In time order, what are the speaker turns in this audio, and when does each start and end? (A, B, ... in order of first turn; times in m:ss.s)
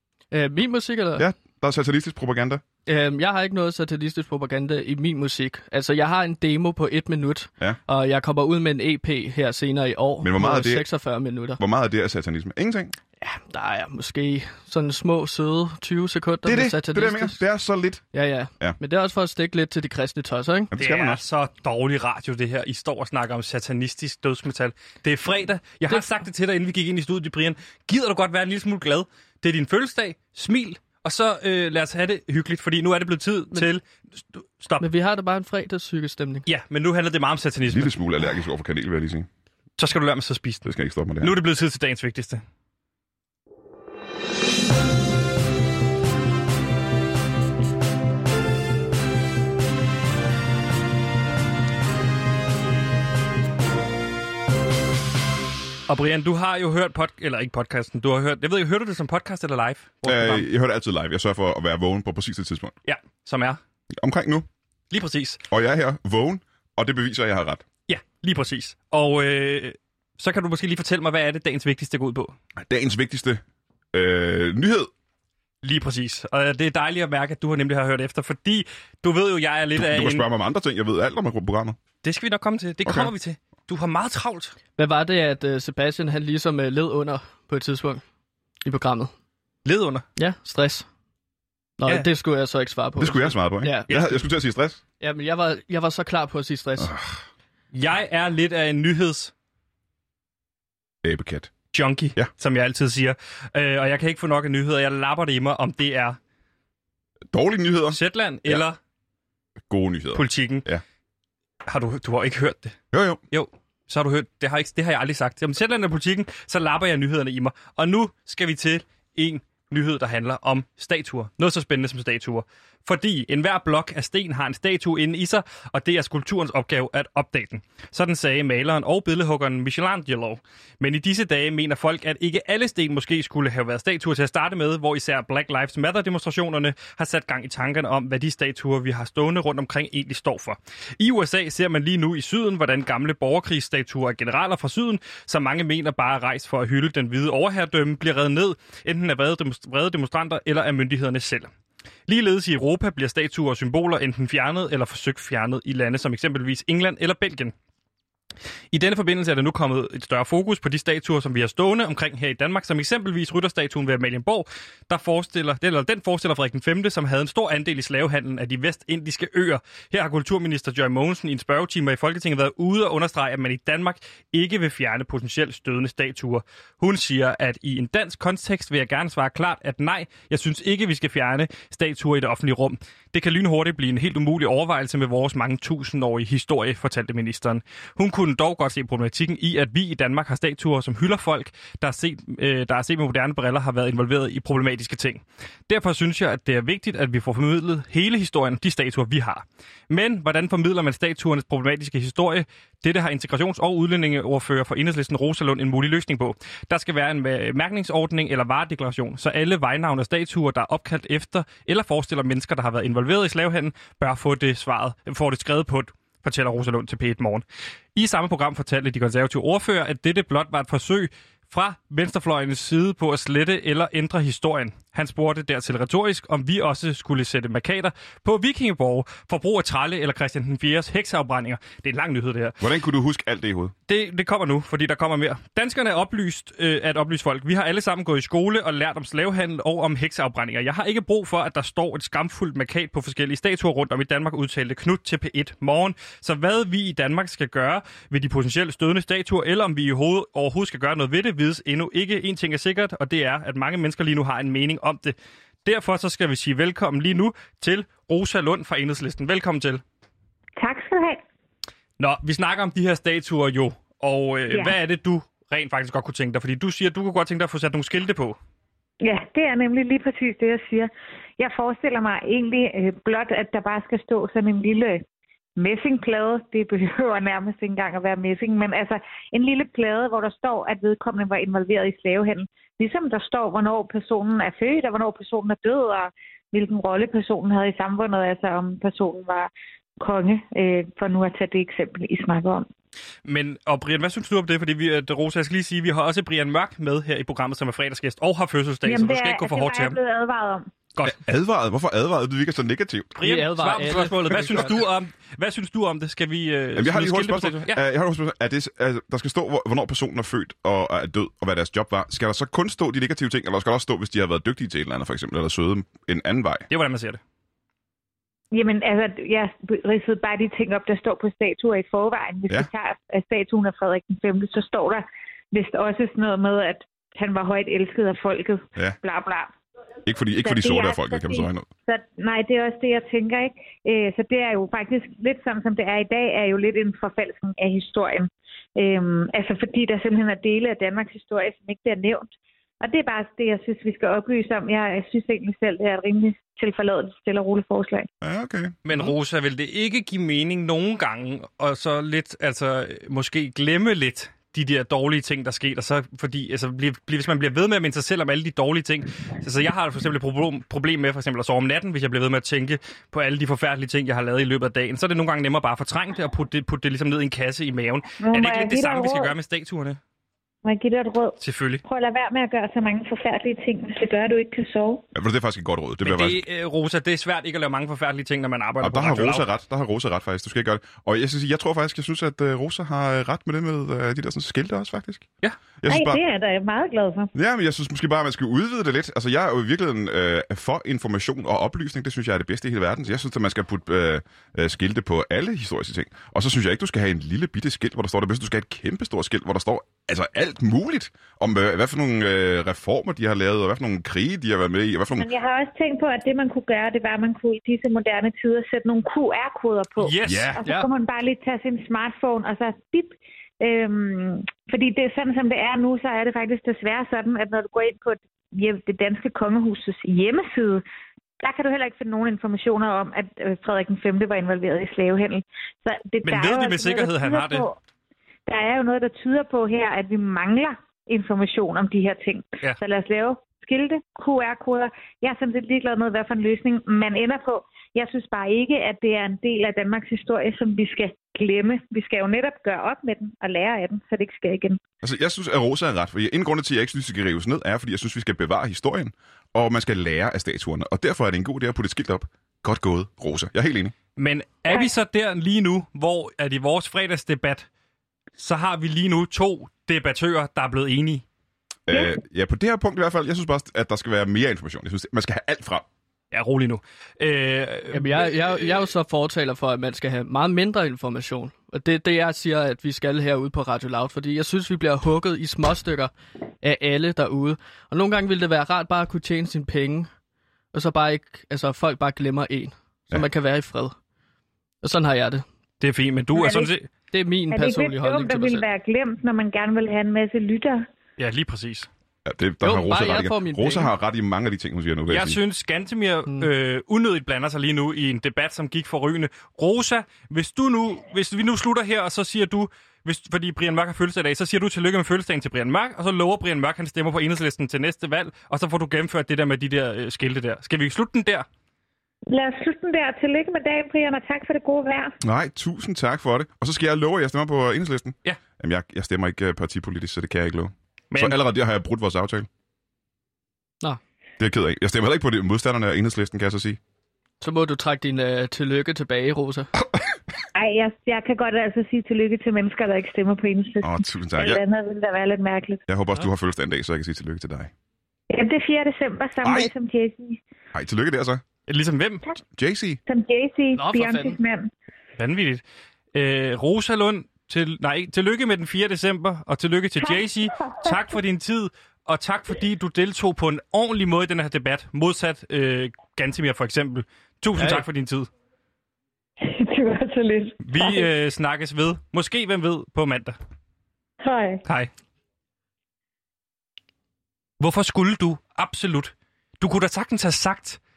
0:00.3-0:01.2 A
0:01.2-0:02.6 B
0:02.9-0:11.6 A
0:10.2-0:10.9 B
0:11.6-0:12.9 B
0:13.2-0:17.4 A
0:16.4-0:18.0 B
0:18.1-0:20.7 A
0:20.7-0:21.2 B
0:20.8-0:33.8 C
0:34.3-0:34.9 C
0:34.8-0:36.4 A
0:36.4-0:37.9 C
0:37.6-0:39.3 B
0:39.8-0:40.7 C
0:40.6-0:41.4 B
0:41.2-0:42.4 C
0:55.9-1:00.5 C
1:00.0-1:02.7 B
1:02.8-1:03.6 C
1:04.0-1:04.5 B
1:04.9-1:05.4 C
1:05.5-1:07.6 B
1:07.9-1:12.3 C
1:12.6-1:13.4 B
1:13.9-1:14.9 B
1:15.6-1:20.2 C
1:19.7-1:21.8 B
1:22.0-1:24.5 C
1:22.8-1:23.1 B
1:24.8-1:28.0 A
1:28.6-1:29.1 A
1:29.6-1:30.0 C
1:30.2-1:30.8 A
1:31.8-1:33.9 A
1:33.0-1:34.8 B
1:33.9-1:34.2 C
1:35.0-1:36.9 A
1:36.8-1:37.2 B
1:37.7-1:39.3 C
1:41.0-1:41.5 B
1:41.7-1:46.2 C
1:47.3-1:48.6 B
1:47.9-1:48.8 C
1:49.7-1:50.8 B
1:50.1-1:50.7 C
1:51.6-1:52.8 C
1:52.9-1:53.2 B
1:53.3-2:31.5 C
2:32.1-2:37.5 C
2:38.7-3:37.4 C
3:38.0-3:52.6 C
3:52.6-3:53.7 B
3:53.9-4:19.8 C
4:20.6-4:21.2 D
4:22.0-4:28.4 C
4:24.5-4:24.8 D
4:29.0-4:35.0 D
4:35.6-4:49.5 D
4:50.0-4:52.6 D
4:53.2-5:00.0 C
4:58.8-5:00.7 D
5:01.0-5:03.2 B
5:03.2-5:07.8 C
5:03.2-5:04.8 A
5:04.3-5:04.7 B
5:06.7-5:16.7 B
5:16.7-5:17.2 C
5:18.5-5:29.5 D
5:30.0-5:31.7 B
5:30.4-5:48.1 D
5:48.2-5:48.8 B
5:48.8-6:10.0 C
6:08.2-6:09.3 D
6:10.6-6:15.0 D
6:11.4-6:11.8 C
6:15.1-6:16.4 B
6:16.0-6:19.5 C
6:18.8-6:25.3 B
6:25.8-6:26.2 B
6:25.9-6:27.3 D
6:27.3-6:45.3 B
6:45.2-7:00.8 D
6:50.0-6:50.6 C
6:50.2-6:50.6 B
6:50.6-6:50.9 A
7:01.4-7:07.8 D
7:06.2-7:07.7 C
7:08.5-7:24.8 D
7:25.0-7:33.9 B
7:34.2-7:37.7 C
7:38.4-7:41.2 C
7:41.9-7:45.8 B
7:46.3-7:48.8 C
7:47.9-7:56.1 A
7:56.6-8:00.1 A
8:00.7-8:03.9 A
8:04.8-8:05.4 A
8:05.8-8:06.9 C
8:06.3-8:06.7 D
8:07.1-8:08.6 A
8:07.5-8:10.8 D
8:11.2-8:11.9 C
8:12.2-8:15.4 B
8:12.6-8:13.9 A
8:15.1-8:31.4 C
8:32.3-8:35.1 D
8:35.2-8:42.5 B
8:44.4-8:46.8 B
8:47.4-8:49.7 A
8:50.5-8:55.8 D
8:53.8-8:54.6 B
8:55.9-8:57.7 B
8:58.3-9:00.4 D
8:59.4-8:59.7 B
9:00.7-9:01.4 B
9:01.7-9:02.2 C
9:02.6-9:03.0 B
9:03.1-9:04.7 D
9:03.8-9:04.4 A
9:05.2-9:05.6 C
9:06.1-9:18.3 C
9:10.0-9:11.0 D
9:17.6-9:17.8 A
9:19.4-9:21.0 D
9:20.6-9:23.4 C
9:24.2-9:24.6 D
9:24.6-9:24.9 C
9:27.6-9:30.8 C